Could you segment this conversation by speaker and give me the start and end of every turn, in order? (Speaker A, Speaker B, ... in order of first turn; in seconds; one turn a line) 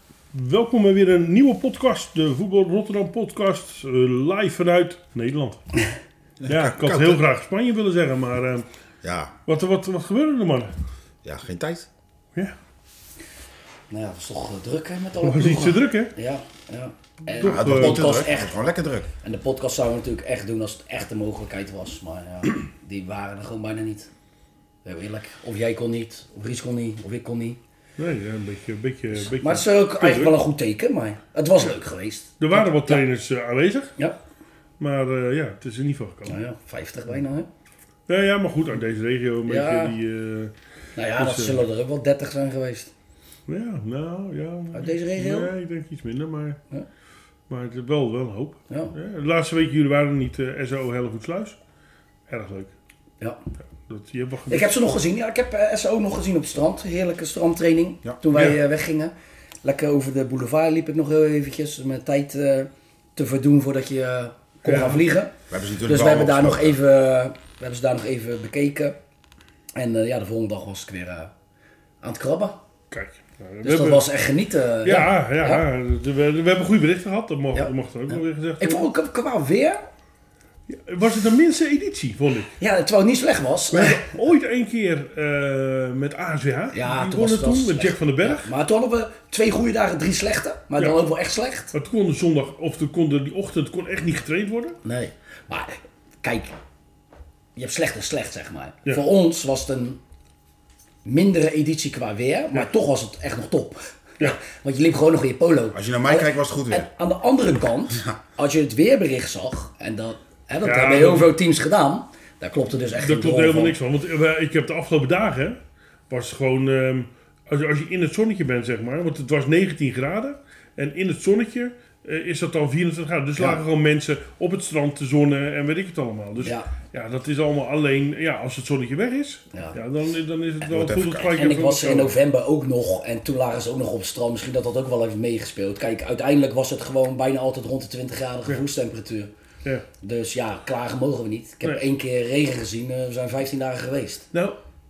Speaker A: 0.3-5.6
Speaker B: 6.4-7.2
Speaker A: 6.5-8.7
Speaker B: 9.0-9.3
Speaker A: 9.5-10.7
Speaker B: 11.2-11.9
Speaker C: 13.9-18.6
Speaker A: 15.2-16.1
Speaker A: 17.4-18.2
Speaker B: 17.4-19.1
Speaker C: 19.2-24.1
Speaker C: 24.8-27.6
Speaker A: 28.0-30.3
Speaker C: 29.1-33.0
Speaker A: 32.4-33.9
Speaker A: 34.8-36.4
Speaker C: 36.3-37.5
Speaker A: 38.1-40.5
Speaker C: 39.5-39.9
Speaker C: 41.0-42.9
Speaker A: 41.2-41.6
Speaker A: 43.5-46.6
Speaker C: 44.7-45.5
Speaker A: 47.5-51.6
Speaker A: 52.3-52.7
Speaker A: 53.8-54.7
Speaker C: 54.5-65.3
Speaker A: 58.3-58.6
Speaker A: 64.7-65.0
Speaker B: 65.5-66.8
Speaker C: 65.8-69.0
Speaker C: 69.8-71.3
Speaker C: 72.0-72.6
Speaker A: 72.9-74.0
Speaker C: 73.6-75.6
Speaker A: 74.8-78.9
Speaker C: 78.6-79.8
Speaker A: 80.7-82.5
Speaker C: 82.6-84.1
Speaker A: 83.7-88.5
Speaker C: 86.7-91.7
Speaker A: 91.7-94.8
Speaker C: 94.8-96.5
Speaker C: 97.5-100.0
Speaker C: 101.0-113.7
Speaker B: 105.7-106.9
Speaker A: 110.6-111.3
Speaker A: 113.0-115.6
Speaker A: 116.1-132.1
Speaker C: 126.4-126.7
Speaker C: 129.5-129.8
Speaker B: 130.6-131.2
Speaker C: 131.3-139.3
Speaker C: 140.0-144.2
Speaker A: 144.3-144.6